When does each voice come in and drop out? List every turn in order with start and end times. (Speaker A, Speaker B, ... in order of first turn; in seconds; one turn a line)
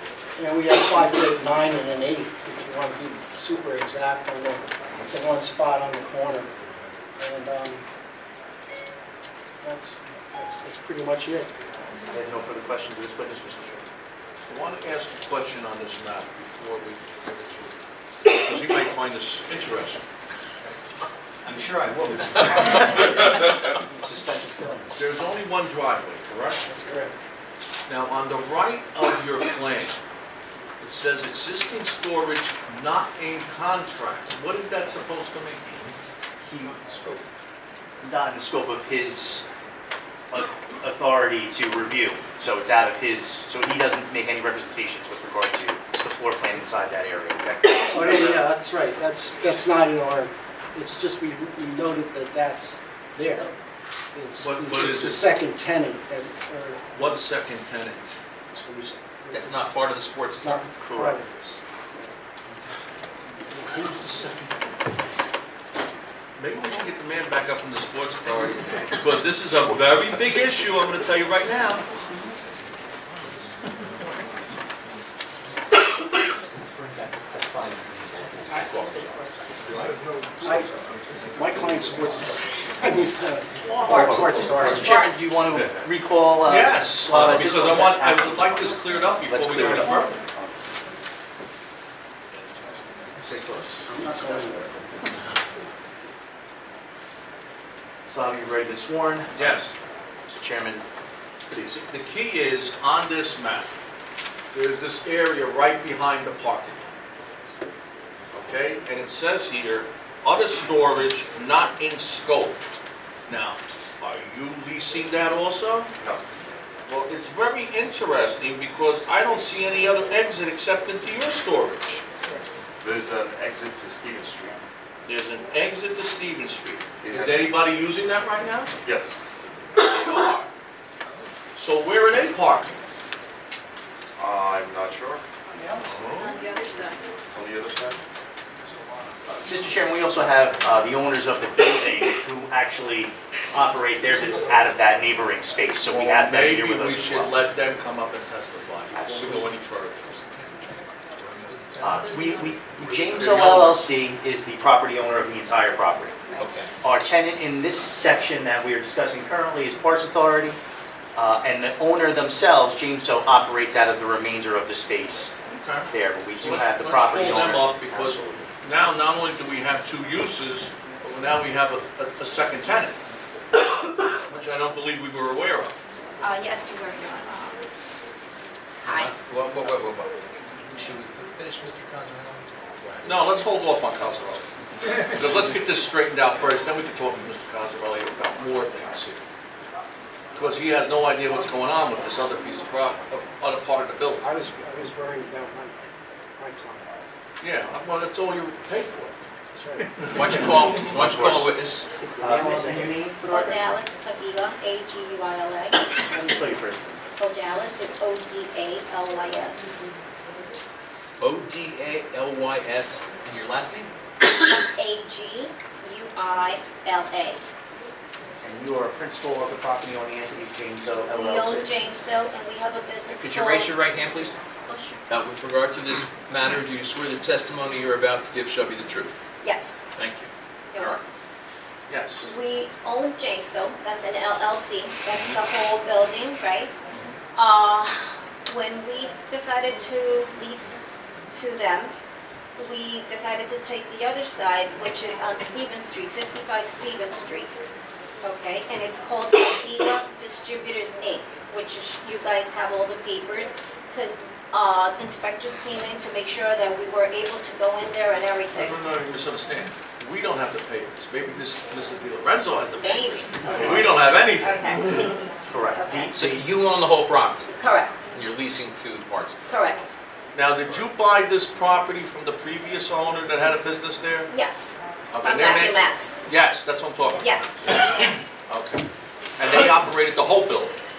Speaker A: 0.4-6.5
Speaker A: 7.2-7.8
Speaker A: 9.6-11.5
Speaker B: 12.1-13.8
Speaker C: 14.5-20.0
Speaker B: 21.4-25.0
Speaker C: 24.9-26.6
Speaker A: 26.6-27.1
Speaker C: 27.9-30.0
Speaker C: 30.8-36.0
Speaker B: 36.4-37.2
Speaker B: 38.0-39.5
Speaker B: 40.3-48.4
Speaker A: 47.9-53.5
Speaker A: 54.1-57.2
Speaker C: 54.4-55.3
Speaker C: 57.0-58.2
Speaker A: 58.5-59.8
Speaker D: 59.3-61.1
Speaker A: 60.4-62.1
Speaker C: 63.4-64.8
Speaker C: 66.4-71.8
Speaker D: 78.6-78.9
Speaker E: 79.7-80.3
Speaker A: 80.4-80.7
Speaker A: 81.3-85.0
Speaker B: 83.8-88.6
Speaker C: 86.5-90.1
Speaker B: 89.3-90.5
Speaker C: 93.2-93.9
Speaker A: 93.9-94.7
Speaker B: 98.1-99.6
Speaker C: 99.3-99.7
Speaker B: 100.3-100.8
Speaker B: 101.5-101.8
Speaker C: 101.8-103.7
Speaker C: 104.5-106.9
Speaker C: 108.3-112.6
Speaker C: 113.3-115.9
Speaker C: 116.9-122.0
Speaker E: 122.8-124.7
Speaker C: 125.1-128.7
Speaker E: 127.0-127.5
Speaker E: 128.8-129.2
Speaker C: 129.8-130.5
Speaker C: 131.6-132.8
Speaker E: 134.2-135.2
Speaker C: 135.8-136.4
Speaker F: 136.2-137.0
Speaker E: 137.3-138.0
Speaker B: 139.5-147.3
Speaker C: 145.9-149.5
Speaker B: 148.9-149.4
Speaker D: 149.0-152.1
Speaker B: 151.8-156.2
Speaker C: 153.0-153.8
Speaker D: 156.4-156.7
Speaker B: 156.8-160.6
Speaker B: 161.2-165.3
Speaker C: 165.5-173.0
Speaker B: 165.9-168.5
Speaker C: 174.2-175.8
Speaker F: 176.2-177.6
Speaker F: 178.8-179.1
Speaker D: 178.9-180.1
Speaker D: 180.7-183.2
Speaker C: 183.0-184.4
Speaker C: 185.0-189.2
Speaker C: 190.4-194.2
Speaker A: 194.2-196.9
Speaker C: 197.4-199.2
Speaker A: 199.5-200.8
Speaker D: 200.1-201.8
Speaker C: 200.2-200.6
Speaker B: 200.9-201.5
Speaker A: 202.0-203.0
Speaker B: 202.2-203.7
Speaker F: 203.3-205.9
Speaker B: 206.1-207.1
Speaker F: 207.2-209.8
Speaker D: 211.2-213.9
Speaker F: 214.4-217.4
Speaker B: 218.4-221.7
Speaker F: 221.1-223.7
Speaker D: 223.1-224.3
Speaker F: 224.7-225.0
Speaker D: 225.1-229.2
Speaker F: 229.4-229.8
Speaker D: 230.0-231.0
Speaker F: 230.7-231.0
Speaker C: 231.9-232.3
Speaker F: 232.2-236.7
Speaker F: 237.3-240.8
Speaker F: 241.3-241.9
Speaker F: 242.6-247.5
Speaker F: 248.2-258.8
Speaker C: 258.5-265.3
Speaker F: 262.8-264.9
Speaker B: 263.6-263.8
Speaker B: 265.5-266.5
Speaker F: 265.7-266.1
Speaker D: 266.1-267.5
Speaker F: 267.5-268.1
Speaker D: 268.1-269.4
Speaker F: 269.5-270.0
Speaker C: 270.3-274.3
Speaker F: 274.3-276.2
Speaker C: 275.1-278.8
Speaker F: 277.2-278.3
Speaker C: 279.4-280.8